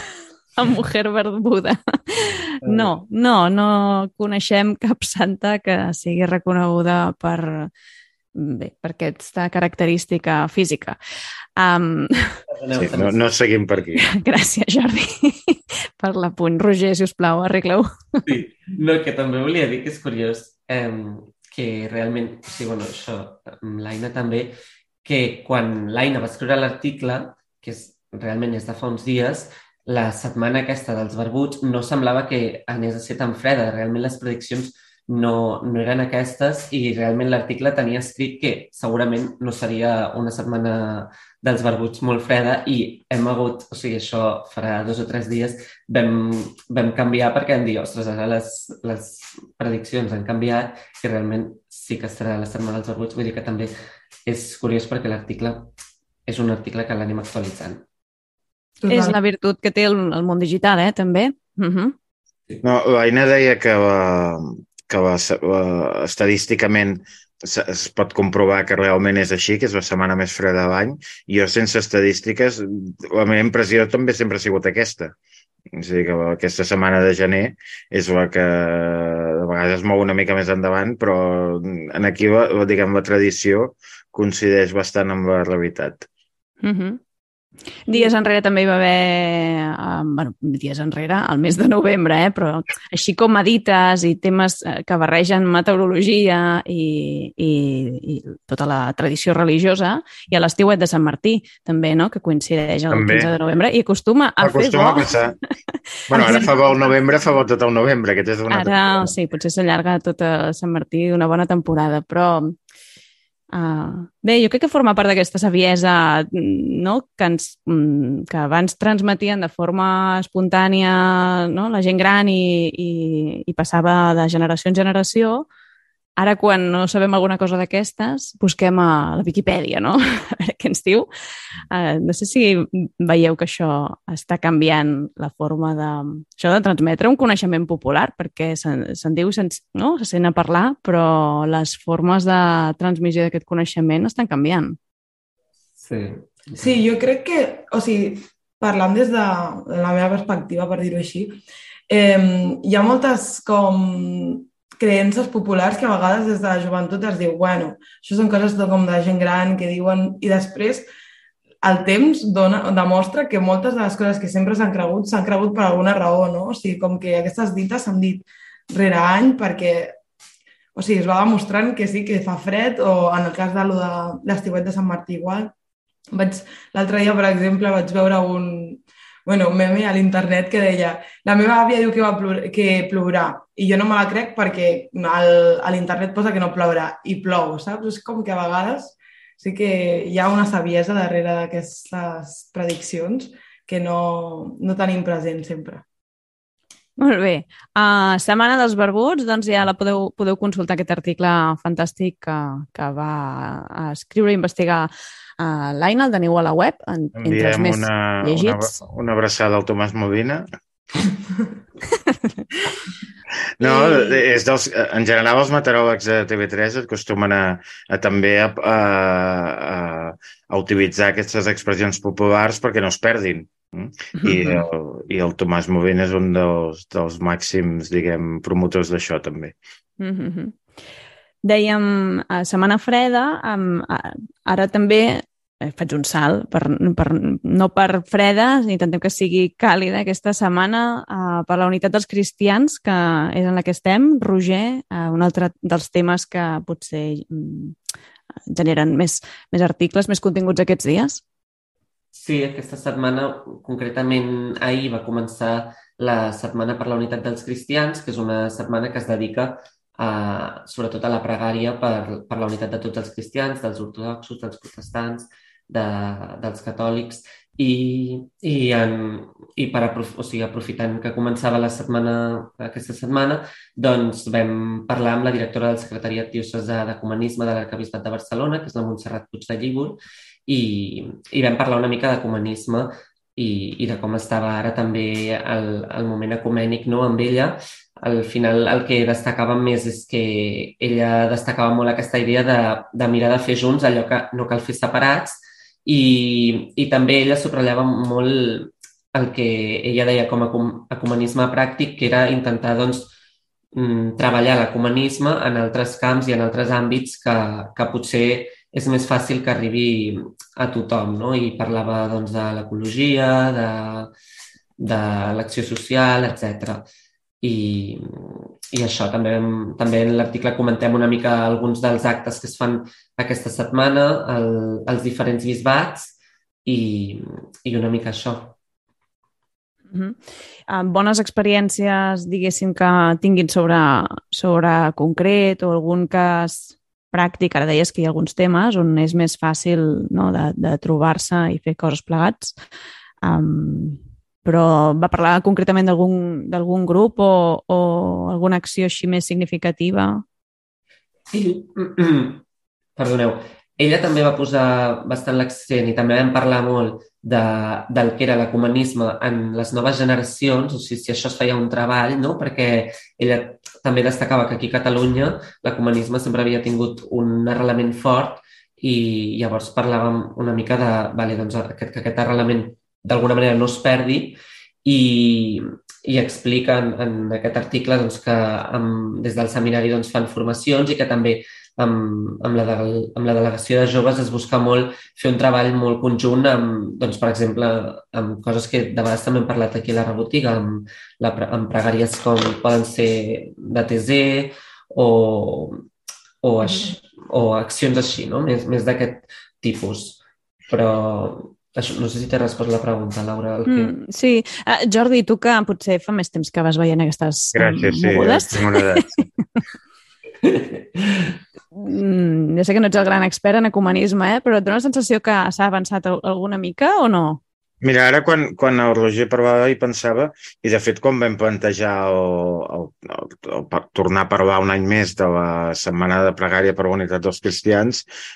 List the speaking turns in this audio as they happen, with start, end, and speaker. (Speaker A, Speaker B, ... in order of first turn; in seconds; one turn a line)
Speaker A: 0.6-7.7
Speaker B: 2.6-2.9
Speaker A: 8.3-11.0
Speaker A: 11.6-12.4
Speaker B: 12.5-13.2
Speaker C: 12.8-14.1
Speaker A: 14.0-18.2
Speaker B: 18.3-53.7
Speaker B: 54.3-55.7
Speaker B: 56.3-57.8
Speaker D: 58.8-59.2
Speaker A: 58.9-62.0
Speaker C: 62.6-75.2
Speaker C: 75.7-86.1
Speaker A: 86.6-87.0
Speaker A: 87.9-105.1
Speaker C: 102.9-103.3
Speaker C: 104.4-105.4
Speaker A: 106.1-106.5
Speaker C: 106.1-109.1
Speaker A: 108.5-112.5
Speaker A: 113.5-125.5
Speaker A: 126.2-131.1
Speaker A: 131.7-144.8
Speaker B: 145.8-146.8
Speaker D: 146.6-160.9
Speaker D: 161.6-169.9
Speaker D: 170.8-175.5
Speaker D: 176.1-195.8
Speaker A: 197.0-208.8
Speaker C: 207.2-210.4
Speaker C: 213.6-229.6
Speaker A: 213.6-214.2
Speaker A: 224.2-224.6
Speaker A: 230.0-230.6
Speaker A: 231.4-247.8
Speaker A: 248.5-251.2
Speaker B: 252.1-303.1
Speaker B: 303.7-314.1
Speaker B: 314.8-316.9
Speaker B: 317.4-326.1
Speaker B: 326.7-328.6
Speaker A: 329.9-330.2
Speaker A: 330.7-342.6
Speaker A: 343.2-350.2
Speaker B: 351.3-352.4
Speaker B: 353.0-395.8
Speaker B: 396.4-403.9
Speaker A: 403.7-409.2
Speaker C: 407.5-409.3
Speaker B: 410.4-411.3
Speaker A: 411.7-417.4
Speaker C: 417.8-428.1